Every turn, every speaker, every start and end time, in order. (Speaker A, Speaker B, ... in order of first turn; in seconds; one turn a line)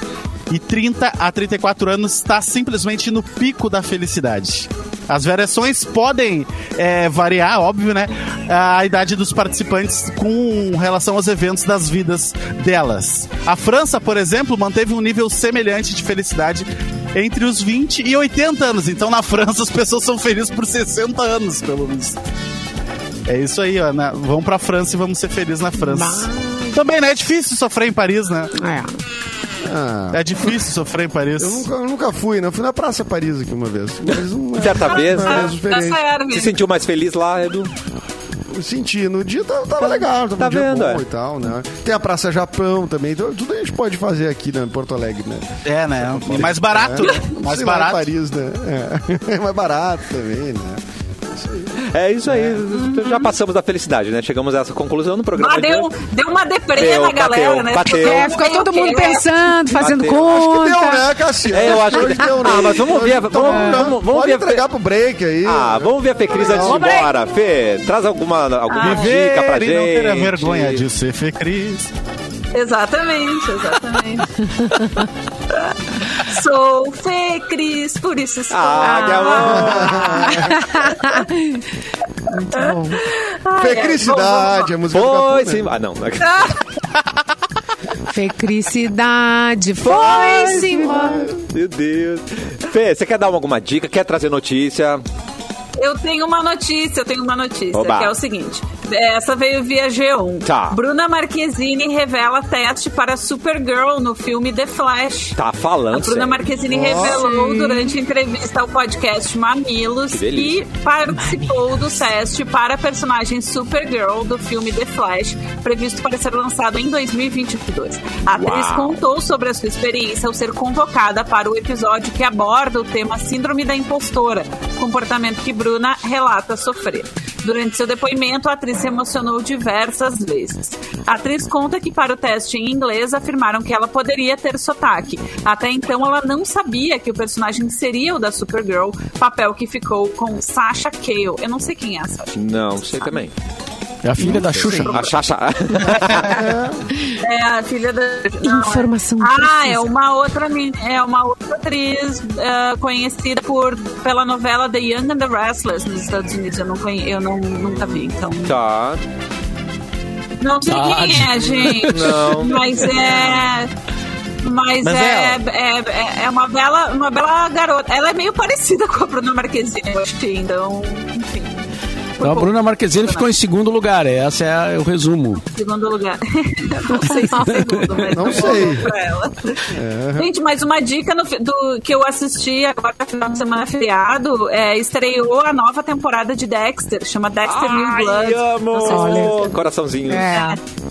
Speaker A: 0.5-22.2
Speaker A: 23.3-28.5
Speaker B: 25.8-26.8
Speaker B: 28.6-28.9
Speaker C: 29.6-30.2
Speaker A: 30.1-31.6
Speaker C: 31.4-36.0
Speaker D: 34.6-35.5
Speaker E: 34.6-36.5
Speaker D: 36.3-37.7
Speaker C: 38.5-51.8
Speaker D: 39.8-41.0
Speaker A: 45.6-48.1
Speaker E: 47.0-47.3
Speaker D: 51.9-55.9
Speaker E: 52.7-53.3
Speaker E: 55.4-59.3
Speaker D: 56.7-58.4
Speaker B: 58.0-62.3
Speaker D: 59.7-60.5
Speaker C: 60.3-66.9
Speaker D: 61.5-64.6
Speaker B: 63.5-63.8
Speaker D: 65.4-70.9
Speaker E: 66.4-67.1
Speaker E: 68.7-69.2
Speaker A: 68.8-71.9
Speaker E: 72.5-74.3
Speaker E: 75.5-81.2
Speaker D: 78.5-80.5
Speaker B: 78.8-81.6
Speaker C: 79.7-80.6
Speaker B: 82.3-83.0
Speaker E: 82.5-84.7
Speaker C: 83.5-85.7
Speaker D: 84.9-86.6
Speaker E: 86.2-86.5
Speaker B: 88.1-91.3
Speaker D: 89.8-95.0
Speaker E: 95.8-105.4
Speaker D: 97.7-98.1
Speaker D: 100.4-100.8
Speaker D: 105.3-106.5
Speaker E: 105.9-142.4
Speaker C: 106.7-107.2
Speaker B: 106.9-108.0
Speaker D: 110.1-110.6
Speaker B: 111.1-111.8
Speaker D: 118.3-119.0
Speaker D: 142.3-143.3
Speaker F: 144.0-145.0
Speaker B: 144.2-144.9
Speaker D: 144.2-146.4
Speaker E: 144.8-145.1
Speaker C: 146.2-146.8
Speaker E: 147.2-158.6
Speaker B: 148.4-149.8
Speaker D: 157.8-159.0
Speaker E: 160.4-163.7
Speaker F: 160.7-162.2
Speaker D: 161.8-163.4
Speaker E: 164.4-171.6
Speaker A: 164.8-165.4
Speaker E: 172.2-173.3
Speaker F: 172.2-175.4
Speaker E: 175.5-179.6
Speaker B: 176.9-177.7
Speaker C: 178.1-178.9
Speaker C: 179.7-180.3
Speaker E: 180.2-189.6
Speaker D: 187.4-190.5
Speaker B: 188.8-190.6
Speaker E: 190.3-190.6